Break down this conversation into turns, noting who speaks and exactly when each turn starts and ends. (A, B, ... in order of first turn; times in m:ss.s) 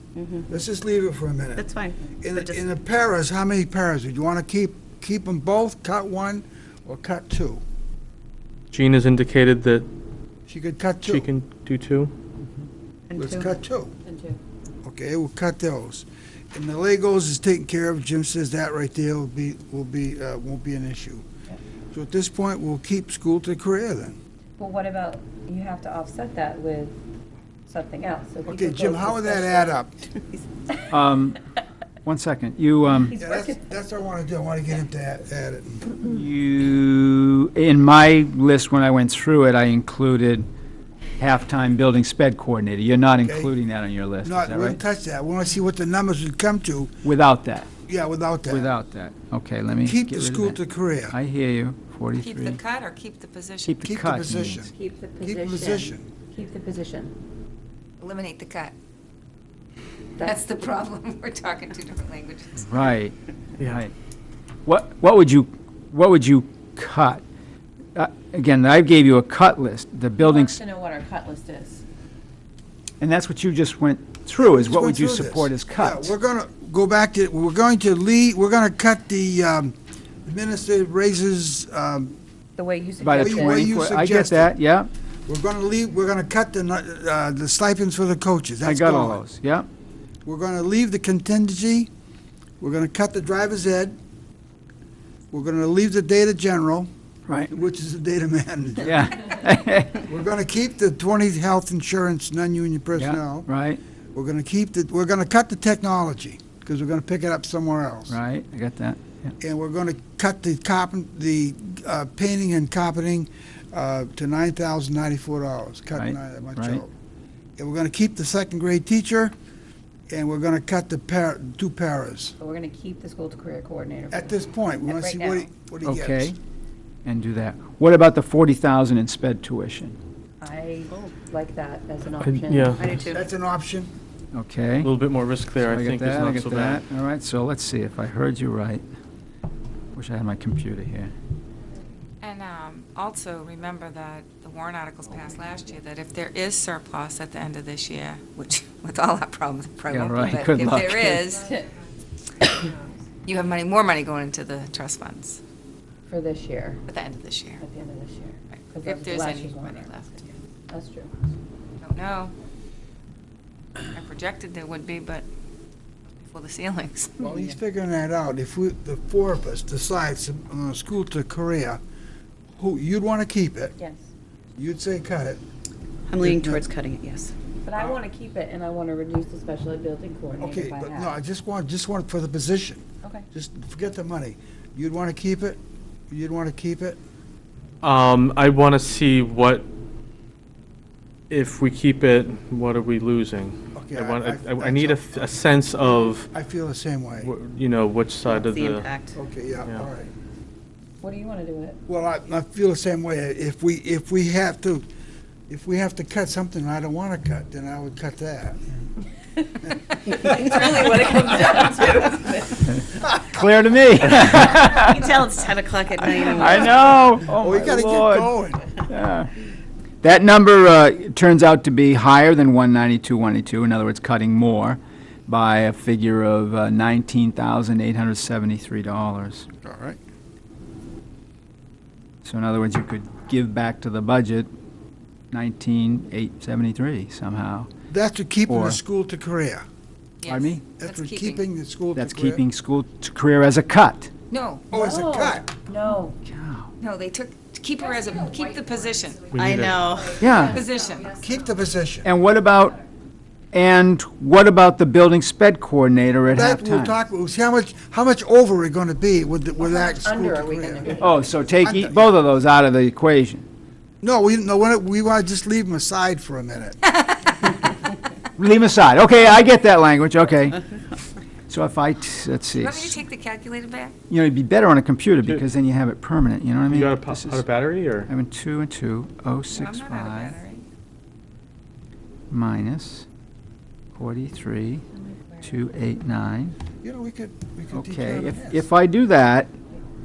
0:00.2-0:00.4 A
0:00.5-0:07.6 B
0:01.6-0:02.6 A
0:08.7-0:09.9 C
0:10.5-0:11.3 B
0:11.0-0:12.1 C
0:13.1-0:13.5 A
0:13.2-0:13.9 B
0:14.0-0:14.4 D
0:14.8-0:21.2 B
0:21.9-0:24.2 B
0:24.6-0:27.0 D
0:27.7-0:29.8 D
0:28.4-0:30.1 B
0:30.9-0:31.4 E
0:32.0-0:33.1 E
0:33.0-0:33.6 D
0:33.1-0:36.0 B
0:36.0-0:40.4 E
0:41.2-0:44.8 E
0:43.2-0:43.5 B
0:44.2-0:46.9 B
0:47.0-0:47.7 E
0:47.8-0:48.7 B
0:48.4-0:50.6 E
0:49.8-0:51.2 B
0:51.1-0:52.6 E
0:52.2-0:53.8 F
0:53.6-0:54.7 E
0:53.8-0:56.1 B
0:54.7-0:57.1 D
0:58.0-0:58.7 F
1:00.2-1:02.7 F
1:02.6-1:03.1 E
1:03.6-1:03.9 E
1:04.6-1:07.2 E
1:07.9-1:10.6 E
1:10.2-1:11.8 D
1:13.0-1:16.1 E
1:14.4-1:19.7 B
1:20.2-1:22.2 B
1:22.6-1:23.6 D
1:23.0-1:24.9 E
1:23.1-1:24.5 B
1:25.3-1:29.2 B
1:28.6-1:29.7 E
1:30.2-1:31.9 B
1:32.6-1:34.0 B
1:35.3-1:36.9 B
1:37.5-1:39.3 B
1:38.8-1:40.0 E
1:40.0-1:43.5 B
1:43.0-1:43.8 E
1:44.1-1:48.2 B
1:48.1-1:49.3 E
1:49.4-1:56.9 B
1:55.9-1:56.8 E
1:57.6-1:59.3 B
2:00.1-2:02.4 B
2:02.4-2:05.5 D
2:04.1-2:06.4 B
2:05.8-2:06.4 E
2:07.0-2:10.0 E
2:10.4-2:13.2 D
2:12.2-2:12.8 C
2:13.0-2:13.9 B
2:14.3-2:14.9 E
2:14.8-2:16.8 C
2:15.6-2:18.8 E
2:19.9-2:21.1 E
2:22.2-2:31.5 F
2:29.9-2:31.2 E
2:33.2-2:35.4 F
2:36.1-2:36.8 D
2:36.9-2:37.6 F
2:37.6-2:39.9 D
2:38.5-2:40.3 F
2:40.7-2:41.2 D
2:41.8-2:42.3 F
2:43.9-2:45.2 F
2:46.1-2:47.3 F
2:47.2-2:51.8 B
2:52.6-2:53.8 B
2:53.8-2:54.1 D
2:54.6-2:55.4 B
2:56.1-2:57.3 A
2:56.2-2:56.6 B
2:57.6-3:01.1 D
3:00.4-3:05.6 B
3:06.1-3:07.0 B
3:07.8-3:09.7 C
3:11.3-3:16.3 C
3:13.7-3:15.5 B
3:16.3-3:17.3 B
3:17.2-3:18.9 C
3:18.2-3:19.1 A
3:19.1-3:20.1 B
3:21.0-3:21.8 D
3:21.9-3:24.8 B
3:25.5-3:28.6 B
3:29.6-3:30.4 B
3:30.0-3:32.7 D
3:33.1-3:35.1 E
3:34.9-3:36.8 A
3:36.1-3:38.3 E
3:37.4-3:38.6 B
3:38.9-3:39.3 E
3:40.0-3:49.5 E
3:49.6-3:50.0 B
3:52.2-3:54.5 E
3:55.3-3:57.7 E
3:57.9-3:59.6 B
3:58.5-3:58.8 E
4:00.2-4:01.4 F
4:00.3-4:00.6 E
4:00.8-4:02.4 B
4:01.9-4:04.1 E
4:04.3-4:04.7 F
4:04.7-4:05.5 B
4:04.7-4:06.2 D
4:06.2-4:06.7 E
4:06.8-4:09.4 F
4:09.3-4:09.9 C
4:09.4-4:10.2 A
4:10.2-4:10.6 E
4:10.4-4:11.1 F
4:11.2-4:12.1 B
4:12.0-4:12.8 E
4:13.5-4:17.0 E
4:16.3-4:21.0 B
4:19.6-4:21.3 D
4:21.0-4:23.4 E
4:21.6-4:22.1 B
4:24.0-4:26.8 B
4:26.9-4:27.5 F
4:28.4-4:30.6 E
4:31.5-4:33.0 E
4:32.5-4:34.0 F
4:34.1-4:37.4 E
4:36.7-4:38.1 C
4:38.1-4:40.4 E
4:39.5-4:40.6 F
4:42.3-4:43.0 E
4:43.9-4:44.8 E
4:45.4-4:46.5 E
4:46.8-4:48.6 B
4:47.7-4:49.5 E